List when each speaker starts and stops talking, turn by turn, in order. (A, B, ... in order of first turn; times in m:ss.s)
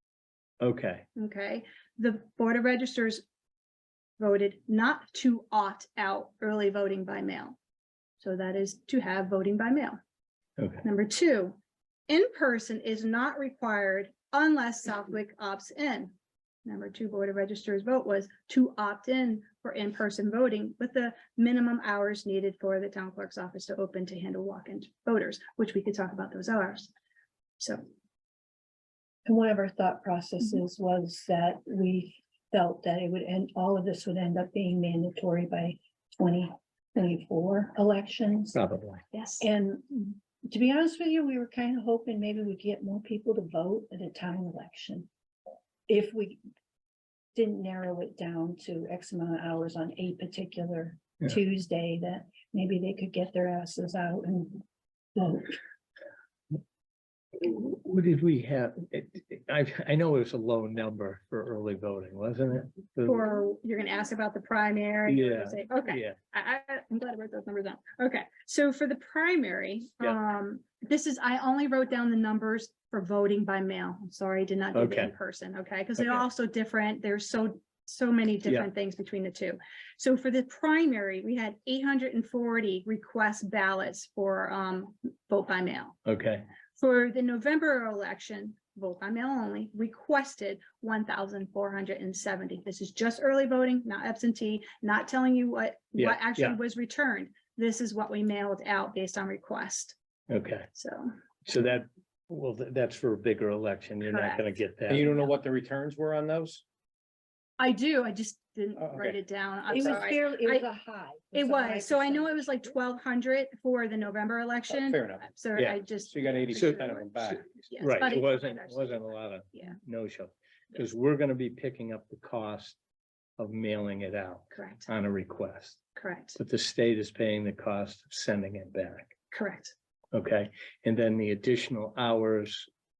0:00.6-0:01.0 A
0:01.2-0:03.2 B
0:04.2-0:07.6 B
0:08.2-0:10.0 B
0:10.6-0:10.8 A
0:10.8-0:11.6 B
0:12.1-0:16.1 B
0:16.6-0:26.9 B
0:29.2-0:38.6 C
0:38.5-0:39.0 A
0:39.1-0:39.4 B
0:39.4-0:45.1 C
0:45.9-0:46.4 C
0:47.3-0:54.6 C
0:55.1-0:55.6 C
0:57.4-1:03.2 A
1:03.0-1:26.0 B
1:05.1-1:06.2 A
1:14.7-1:15.1 A
1:16.0-1:16.2 A
1:26.0-1:26.4 A
1:26.8-1:40.0 B
1:36.0-1:36.6 A
1:40.3-1:40.7 A
1:40.7-1:41.1 B
1:41.4-1:45.1 A
1:44.1-1:45.1 B
1:44.9-1:46.6 D
1:47.6-1:50.6 B
1:48.8-1:49.2 D
1:49.7-1:52.5 C
1:51.3-1:59.8 B
1:54.7-1:55.2 D
1:55.6-1:55.8 A
1:56.1-1:57.4 D
1:56.5-2:02.8 A
2:03.4-2:05.8 A
2:04.5-2:04.9 B
2:06.0-2:06.4 B
2:06.4-2:09.1 A
2:09.3-2:09.7 B
2:10.1-2:12.7 A